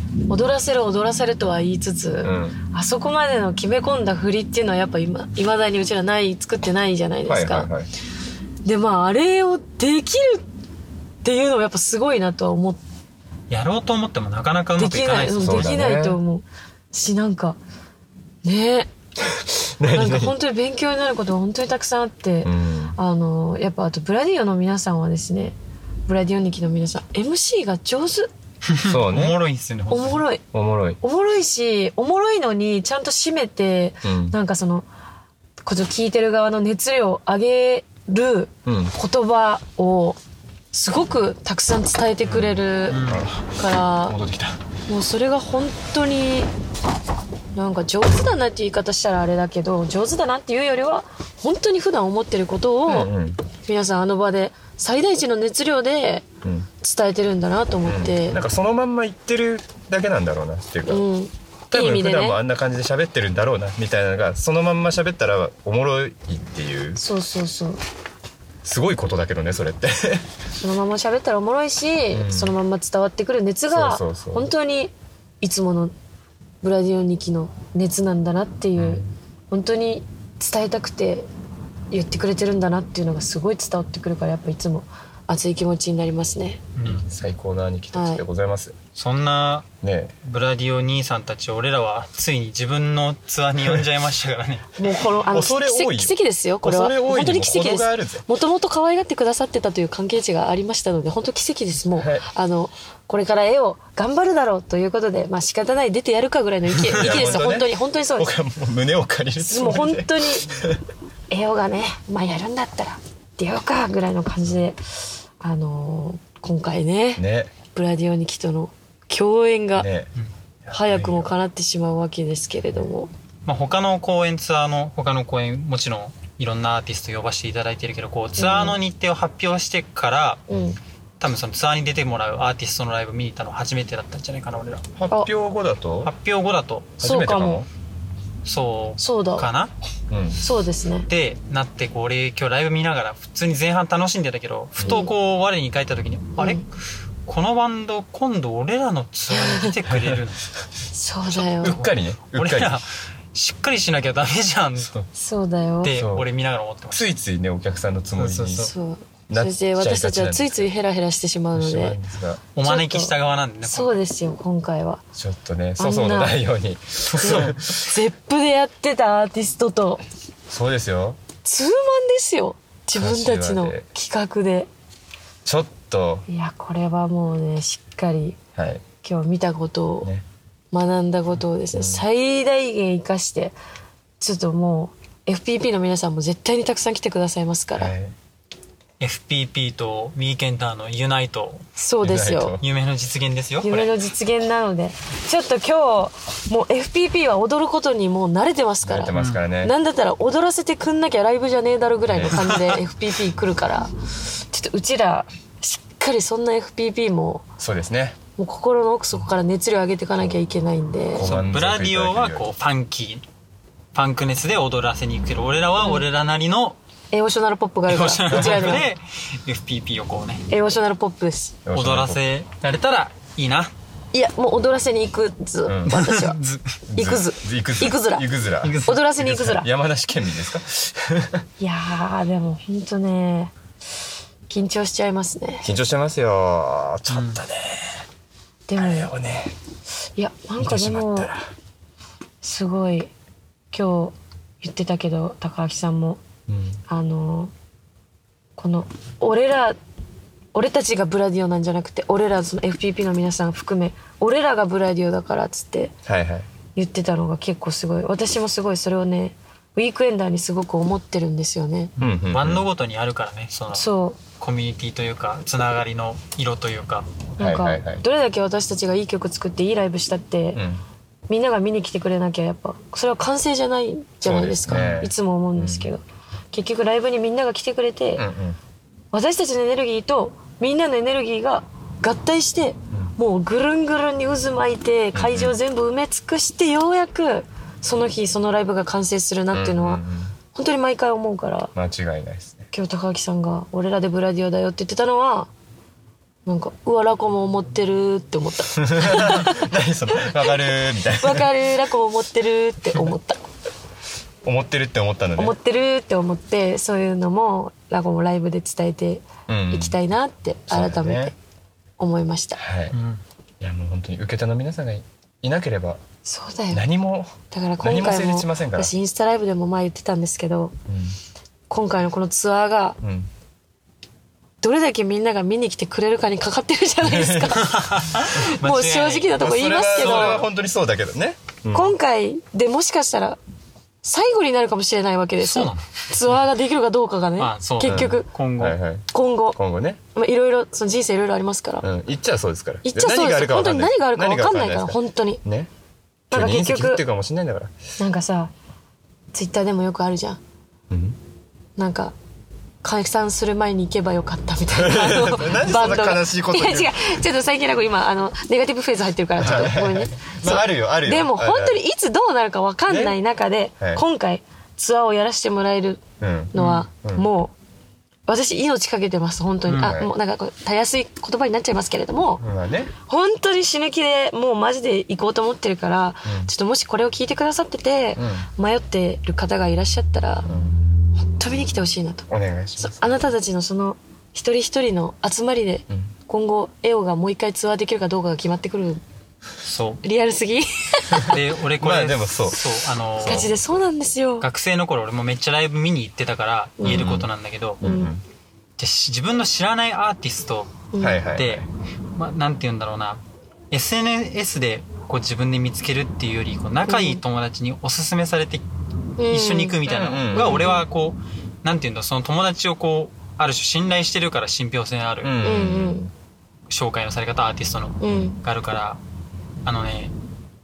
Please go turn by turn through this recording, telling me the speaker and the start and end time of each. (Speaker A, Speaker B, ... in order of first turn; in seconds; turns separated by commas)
Speaker A: 0.3-7.7, Speaker B: 2.2-2.6, Speaker B: 7.3-7.9, Speaker A: 8.6-10.4, Speaker A: 11.2-12.8, Speaker C: 13.5-15.8, Speaker A: 14.8-17.6, Speaker B: 15.4-16.2, Speaker A: 18.4-18.9, Speaker B: 19.4-20.4, Speaker A: 19.9-25.6, Speaker B: 22.4-22.9, Speaker A: 26.1-28.3, Speaker C: 28.7-30.2, Speaker B: 28.8-29.4, Speaker A: 29.9-30.4, Speaker B: 30.5-31.0, Speaker A: 31.0-34.9, Speaker B: 34.0-34.4, Speaker A: 35.6-40.2, Speaker B: 38.6-38.9, Speaker A: 40.7-43.0, Speaker B: 42.3-43.5, Speaker C: 42.9-43.2, Speaker A: 43.6-44.1, Speaker B: 44.0-44.6, Speaker A: 44.9-46.5, Speaker A: 47.5-53.1, Speaker B: 52.9-53.4, Speaker A: 53.6-56.2, Speaker A: 56.8-58.4, Speaker B: 57.8-61.0, Speaker A: 60.9-62.4, Speaker B: 61.7-67.0, Speaker A: 67.0-67.8, Speaker B: 68.6-70.3, Speaker A: 70.5-75.9, Speaker B: 72.1-72.5, Speaker B: 73.7-74.5, Speaker A: 76.6-81.3, Speaker B: 78.8-79.1, Speaker A: 81.9-86.6, Speaker C: 86.8-87.0, Speaker B: 86.8-88.8, Speaker A: 87.9-88.2, Speaker C: 88.9-89.7, Speaker B: 89.8-90.1, Speaker C: 90.2-94.7, Speaker A: 94.8-108.3, Speaker B: 95.3-98.2, Speaker B: 101.9-102.2, Speaker B: 106.8-110.8, Speaker C: 106.9-107.4, Speaker A: 109.4-110.4, Speaker A: 111.3-114.8, Speaker A: 115.4-119.9, Speaker B: 117.2-117.5, Speaker B: 119.8-120.1, Speaker B: 120.7-121.3, Speaker A: 120.7-123.1, Speaker C: 123.5-130.5, Speaker A: 128.4-128.8, Speaker A: 130.5-130.7, Speaker B: 130.5-130.8, Speaker C: 131.2-134.8, Speaker B: 134.9-136.1, Speaker C: 136.0-137.0, Speaker B: 137.0-137.7, Speaker A: 137.0-137.6, Speaker C: 138.4-139.7, Speaker A: 139.0-139.5, Speaker B: 140.1-140.4, Speaker A: 140.4-141.1, Speaker C: 141.1-146.7, Speaker A: 144.8-145.1, Speaker A: 146.4-146.6, Speaker C: 147.2-150.4, Speaker A: 149.3-149.7, Speaker B: 149.9-150.2, Speaker A: 150.9-151.8, Speaker C: 151.4-154.9, Speaker B: 151.5-152.8, Speaker A: 155.1-156.0, Speaker C: 155.8-157.1, Speaker B: 155.8-156.3, Speaker B: 156.9-158.7, Speaker C: 158.2-158.7, Speaker A: 158.6-162.0, Speaker B: 159.3-160.7, Speaker B: 161.5-162.4, Speaker C: 162.5-163.9, Speaker A: 162.6-165.0, Speaker B: 165.1-167.9, Speaker A: 165.8-166.4, Speaker A: 167.2-170.0, Speaker B: 170.5-171.2, Speaker A: 171.4-174.7, Speaker B: 172.9-173.8, Speaker B: 175.4-176.2, Speaker A: 176.3-178.4, Speaker B: 178.6-178.8, Speaker A: 179.0-180.1, Speaker A: 180.7-183.5, Speaker B: 181.7-182.0, Speaker A: 184.2-187.9, Speaker B: 187.8-188.1, Speaker C: 189.0-191.6, Speaker A: 191.8-192.6, Speaker B: 192.0-192.6, Speaker C: 192.6-193.9, Speaker A: 193.6-203.9, Speaker B: 198.8-199.7, Speaker C: 199.1-199.4, Speaker B: 202.1-202.5, Speaker C: 202.3-202.8, Speaker A: 204.5-207.4, Speaker B: 207.6-208.2, Speaker A: 208.4-211.3, Speaker B: 211.1-212.4, Speaker C: 211.2-213.2, Speaker C: 213.9-216.8, Speaker A: 217.1-218.9, Speaker C: 217.9-220.4, Speaker B: 218.3-218.8, Speaker A: 220.5-221.5, Speaker B: 221.6-222.2, Speaker C: 221.7-223.7, Speaker A: 224.1-226.4, Speaker B: 225.7-226.0, Speaker C: 225.9-226.6, Speaker B: 226.9-231.4, Speaker A: 226.9-228.2, Speaker C: 228.6-229.0, Speaker A: 228.8-229.7, Speaker A: 231.6-233.5, Speaker A: 234.5-235.7, Speaker B: 235.6-237.9, Speaker C: 237.1-237.4, Speaker A: 238.7-239.1, Speaker B: 238.8-239.5, Speaker A: 240.2-241.3, Speaker B: 240.6-241.5, Speaker A: 242.4-243.1, Speaker A: 243.7-246.2, Speaker B: 246.5-246.8, Speaker A: 246.9-247.5, Speaker A: 248.6-249.8, Speaker A: 250.5-255.9, Speaker B: 256.1-256.5, Speaker A: 256.7-261.9, Speaker C: 262.0-263.8, Speaker B: 262.0-262.6, Speaker A: 263.7-264.2, Speaker C: 264.4-267.1, Speaker A: 267.4-270.6, Speaker B: 267.4-268.0, Speaker B: 270.5-270.8, Speaker A: 271.3-278.2, Speaker B: 274.2-275.9, Speaker C: 274.7-275.0, Speaker B: 278.1-278.6, Speaker A: 279.1-290.0, Speaker B: 285.1-285.6, Speaker B: 289.5-290.3, Speaker A: 290.5-291.7, Speaker B: 291.7-292.7, Speaker A: 292.7-295.5, Speaker A: 296.4-300.5, Speaker B: 298.8-301.5, Speaker A: 301.2-303.4, Speaker B: 304.4-305.6, Speaker A: 305.4-311.3, Speaker B: 309.5-310.0, Speaker B: 310.7-311.3, Speaker A: 312.0-312.6, Speaker B: 312.6-312.9, Speaker C: 312.9-313.2, Speaker B: 313.6-316.0, Speaker A: 316.2-316.8, Speaker B: 316.7-318.9, Speaker A: 317.5-320.7, Speaker B: 320.9-321.1, Speaker A: 321.7-323.0, Speaker B: 323.0-323.3, Speaker A: 324.6-330.5, Speaker B: 327.0-327.8, Speaker C: 327.6-330.4, Speaker B: 329.4-331.9, Speaker A: 331.7-333.4, Speaker A: 334.0-338.3, Speaker C: 335.4-335.9, Speaker C: 337.4-338.8, Speaker B: 337.8-340.0, Speaker A: 339.1-339.6, Speaker A: 340.1-341.9, Speaker B: 341.8-345.7, Speaker A: 342.8-345.4, Speaker A: 346.3-347.0, Speaker B: 346.3-347.7, Speaker A: 348.0-348.5, Speaker A: 349.3-350.4, Speaker B: 350.9-351.2, Speaker A: 351.8-352.1, Speaker A: 352.8-367.5, Speaker B: 354.7-356.9, Speaker B: 359.4-361.8, Speaker B: 362.9-363.2, Speaker B: 366.2-367.3, Speaker C: 366.6-366.9, Speaker A: 368.3-372.4, Speaker C: 369.7-370.0, Speaker B: 369.8-370.1, Speaker B: 372.4-372.9, Speaker A: 373.1-380.5, Speaker B: 376.2-376.5, Speaker B: 378.1-378.5, Speaker B: 380.5-380.8, Speaker A: 381.2-382.3, Speaker B: 382.3-383.1, Speaker A: 382.8-389.0, Speaker C: 389.6-390.0, Speaker A: 390.0-391.4, Speaker C: 391.2-393.5, Speaker B: 391.8-393.5, Speaker A: 393.2-394.5, Speaker C: 394.4-397.8, Speaker A: 396.8-397.1, Speaker B: 396.8-397.3, Speaker B: 397.8-398.2, Speaker A: 397.8-398.1, Speaker C: 398.8-408.6, Speaker A: 400.9-401.2, Speaker B: 401.0-401.7, Speaker A: 406.9-407.2, Speaker A: 409.2-409.8, Speaker C: 409.3-415.4, Speaker B: 409.9-410.8, Speaker A: 410.3-410.8, Speaker B: 415.2-416.1, Speaker A: 415.4-416.1, Speaker C: 416.7-419.0, Speaker A: 418.0-418.4, Speaker C: 419.6-420.1